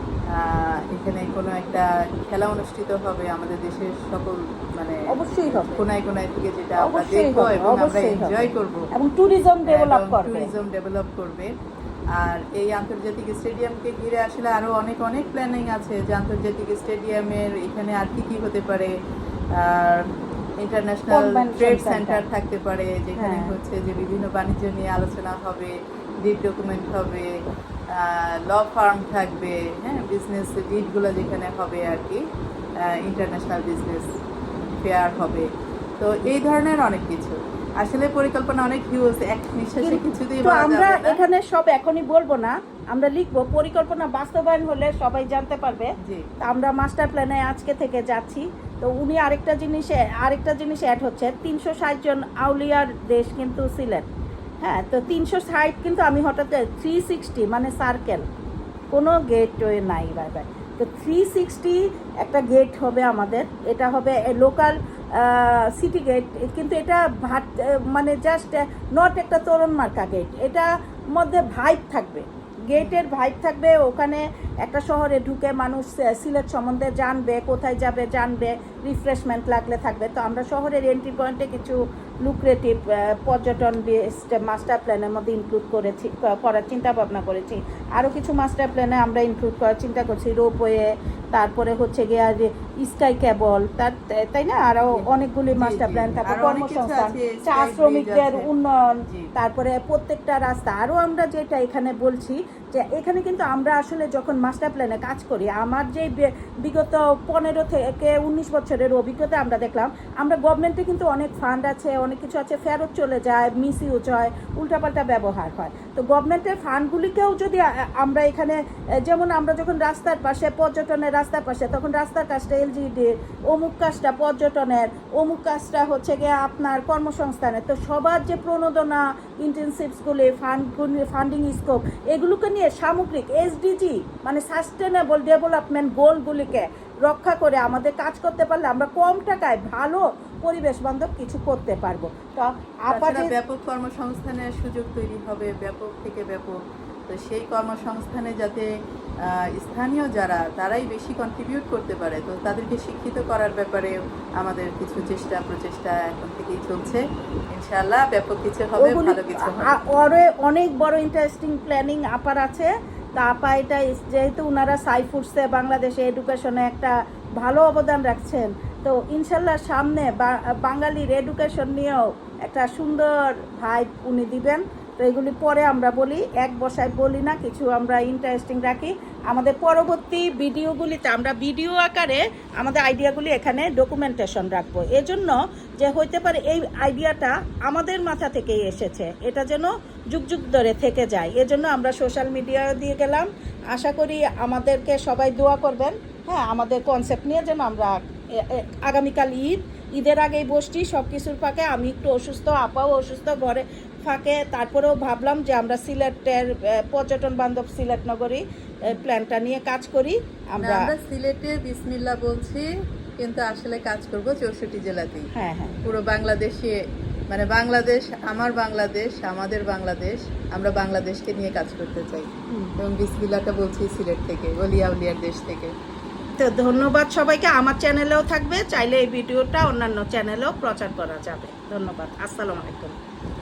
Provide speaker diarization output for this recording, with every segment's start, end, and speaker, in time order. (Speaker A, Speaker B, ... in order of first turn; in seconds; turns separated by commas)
Speaker A: 0.3-8.9, Speaker B: 5.1-5.8, Speaker B: 6.8-10.5, Speaker A: 9.7-11.5, Speaker A: 12.2-18.9, Speaker A: 19.6-20.0, Speaker A: 20.6-27.3, Speaker B: 21.1-22.2, Speaker B: 23.2-23.5, Speaker A: 27.9-32.2, Speaker A: 32.8-34.1, Speaker A: 34.8-35.5, Speaker A: 36.0-41.2, Speaker B: 39.8-54.1, Speaker B: 54.6-58.2, Speaker B: 58.9-143.3, Speaker A: 72.7-73.0, Speaker A: 94.9-98.5, Speaker A: 99.0-99.3, Speaker A: 142.9-146.6, Speaker A: 147.1-148.7, Speaker A: 149.2-157.0, Speaker A: 157.5-159.8, Speaker B: 158.8-210.9, Speaker A: 210.6-215.3, Speaker B: 215.3-215.8, Speaker A: 215.8-216.8, Speaker A: 217.3-225.7, Speaker B: 222.5-222.7, Speaker B: 226.4-233.0